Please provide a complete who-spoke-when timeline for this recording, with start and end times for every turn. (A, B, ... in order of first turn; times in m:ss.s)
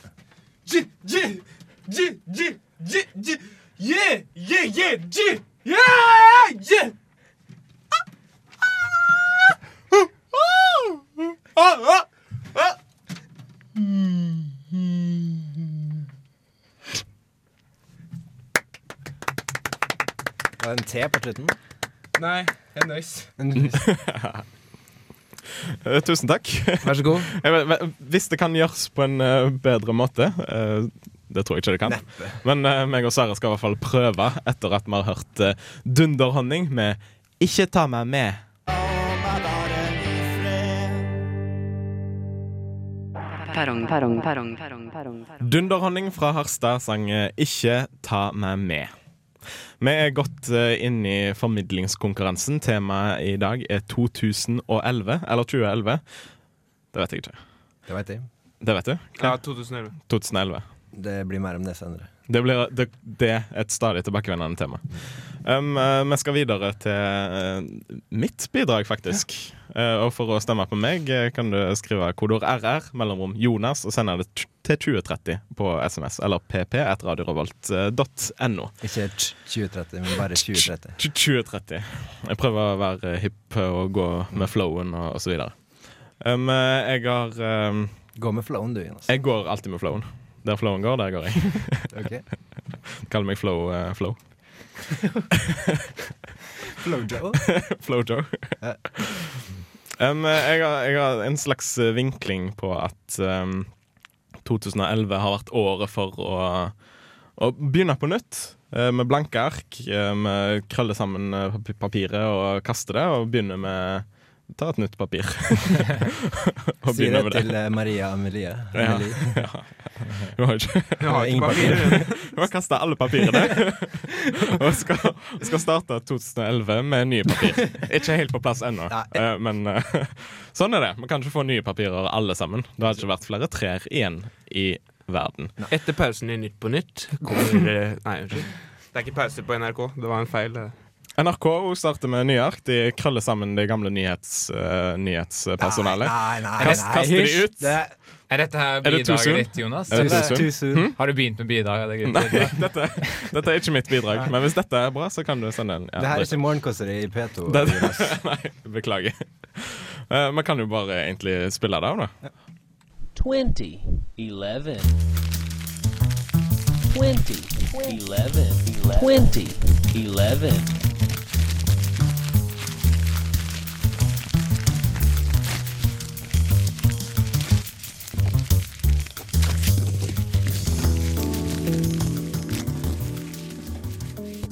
0:00.6-0:06.9 A
0:11.6-0:12.0 A
0:20.6-0:21.6 B
0:22.2-0:23.3 A
0:23.4-0:23.8 B
0:23.6-0:24.4 C
0:25.6-0:38.4 C
0:26.8-0:27.3 A
0:31.8-0:32.4 B
0:39.8-0:40.9 C
0:43.4-0:45.4 D
0:45.4-0:48.9 C
0:49.8-0:56.0 C
0:56.9-0:57.4 C
0:57.9-0:58.3 B
0:58.6-0:59.4 C
0:59.2-0:59.9 A
1:00.1-1:00.6 C
1:00.9-1:02.1 B
1:02.3-1:18.7 C
1:18.8-1:21.0 B
1:20.4-1:25.6 C
1:26.2-1:27.9 C
1:28.2-1:29.1 B
1:29.1-1:31.9 C
1:31.9-1:32.2 B
1:33.0-1:34.2 C
1:35.4-1:35.8 C
1:36.8-1:37.4 B
1:37.4-1:39.3 C
1:40.0-1:43.7 C
1:44.4-1:46.7 C
1:47.4-1:56.2 C
1:56.8-1:57.5 C
1:56.8-1:59.4 B
1:58.7-2:15.6 C
2:01.0-2:02.3 A
2:01.1-2:02.1 B
2:08.9-2:09.2 B
2:15.7-2:20.7 A
2:21.2-2:27.8 C
2:25.6-2:27.9 B
2:28.3-2:33.2 E
2:28.8-2:31.0 C
2:29.9-2:30.9 B
2:32.0-2:36.4 C
2:36.0-2:38.2 B
2:37.5-2:42.1 C
2:43.2-2:45.0 F
2:46.9-2:50.8 F